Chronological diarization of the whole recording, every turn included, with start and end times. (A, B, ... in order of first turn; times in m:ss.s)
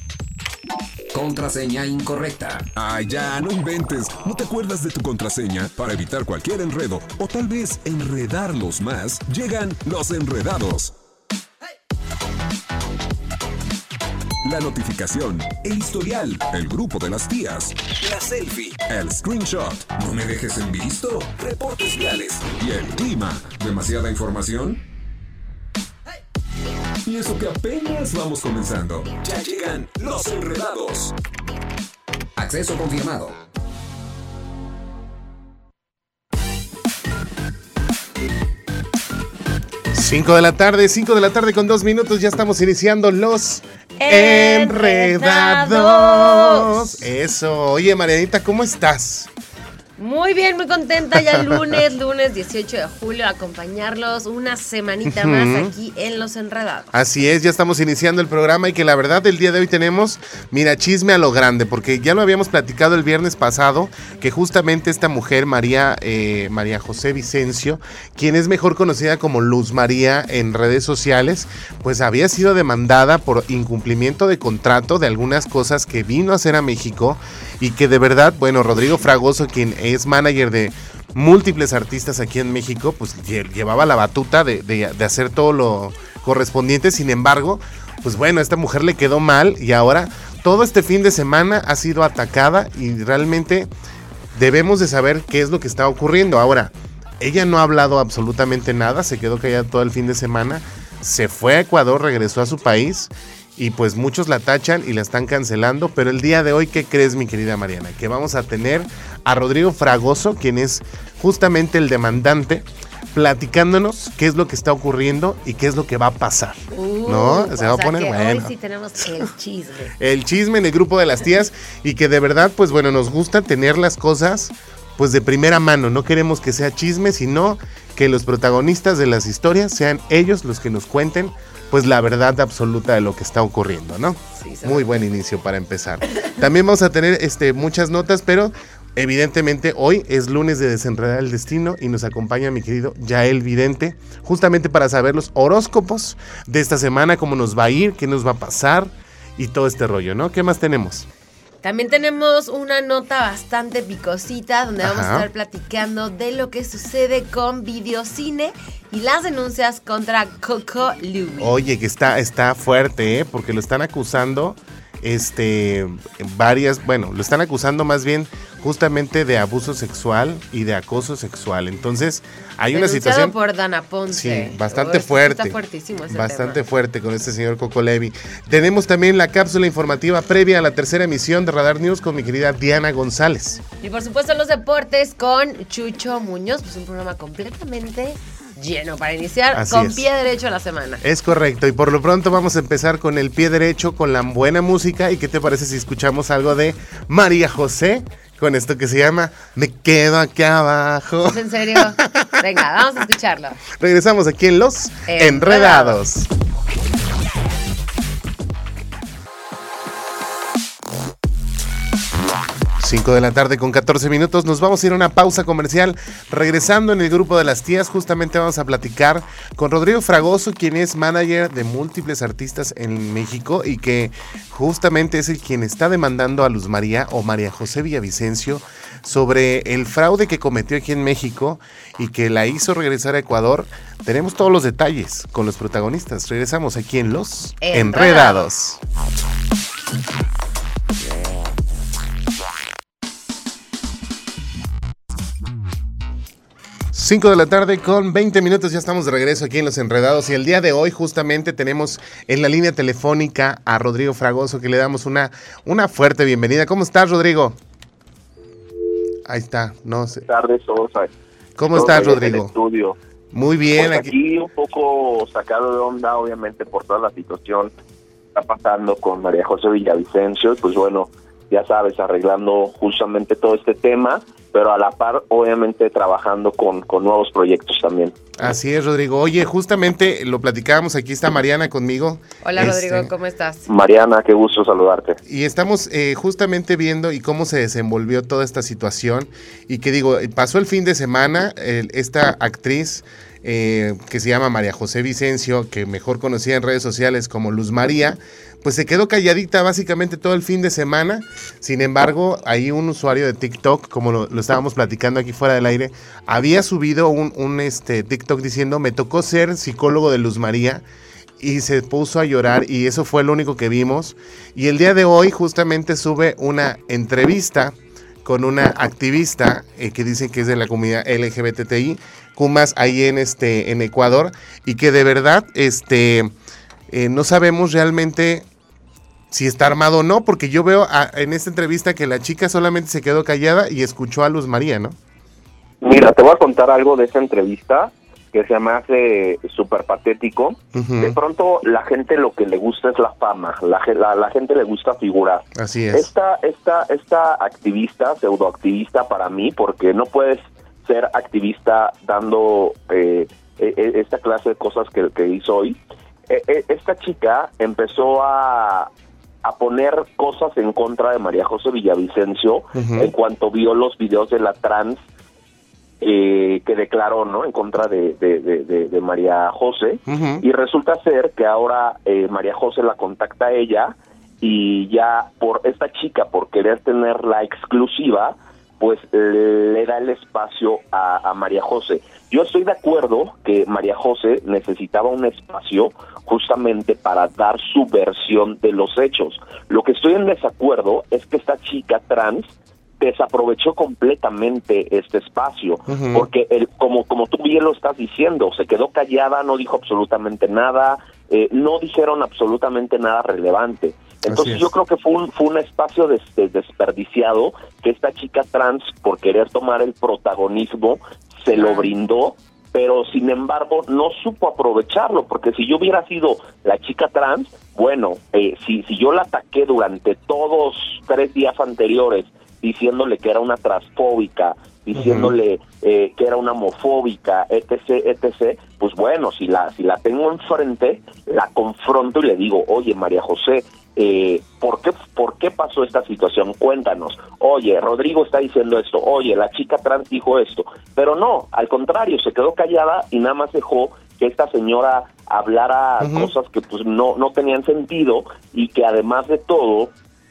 0:01.1-0:02.7 A
0:02.8-0:10.9 B
0:14.4-0:24.8 B
0:27.0-0:31.2 B
0:32.4-0:33.4 A
0:39.9-0:49.3 C
0:44.0-0:46.8 D
0:50.0-0:56.9 D
0:51.1-0:51.5 C
0:55.0-0:55.7 C
0:56.9-1:33.7 C
1:34.3-1:58.5 C
1:56.7-1:59.9 D
2:00.0-2:31.1 C
2:14.4-2:14.8 D
2:31.6-2:41.6 D
2:34.8-2:35.2 C
2:41.4-2:53.4 C
2:52.7-2:56.6 D
2:54.1-2:55.6 C
2:56.1-3:03.6 C
3:03.8-3:11.0 D
3:09.5-3:10.0 C
3:11.0-3:22.4 C
3:21.2-3:23.6 D
3:23.8-3:26.3 C
3:25.1-3:26.0 D
3:32.8-3:58.8 C
3:57.6-3:58.5 D
4:06.9-4:17.6 C
4:19.2-4:20.2 C
4:20.2-4:21.1 E
4:21.6-4:22.5 C
4:21.7-4:23.0 E
4:23.3-4:24.1 C
4:23.8-4:27.7 E
4:28.4-4:38.1 E
4:38.4-4:43.1 C
4:42.4-4:43.6 D
4:43.7-4:45.2 E
4:45.2-5:10.8 C
5:11.4-5:26.3 C
5:26.9-5:28.5 C
5:29.3-5:35.0 C
5:35.8-5:55.8 E
5:40.8-5:41.2 C
5:45.6-5:46.1 C
5:56.3-5:58.9 E
5:59.4-6:05.0 E
6:02.8-6:03.1 C
6:06.0-7:29.9 E
6:10.1-6:10.4 C
6:35.9-6:36.3 C
6:44.3-6:44.7 C
6:51.6-6:51.9 D
7:04.9-7:05.3 C
7:26.0-7:26.3 C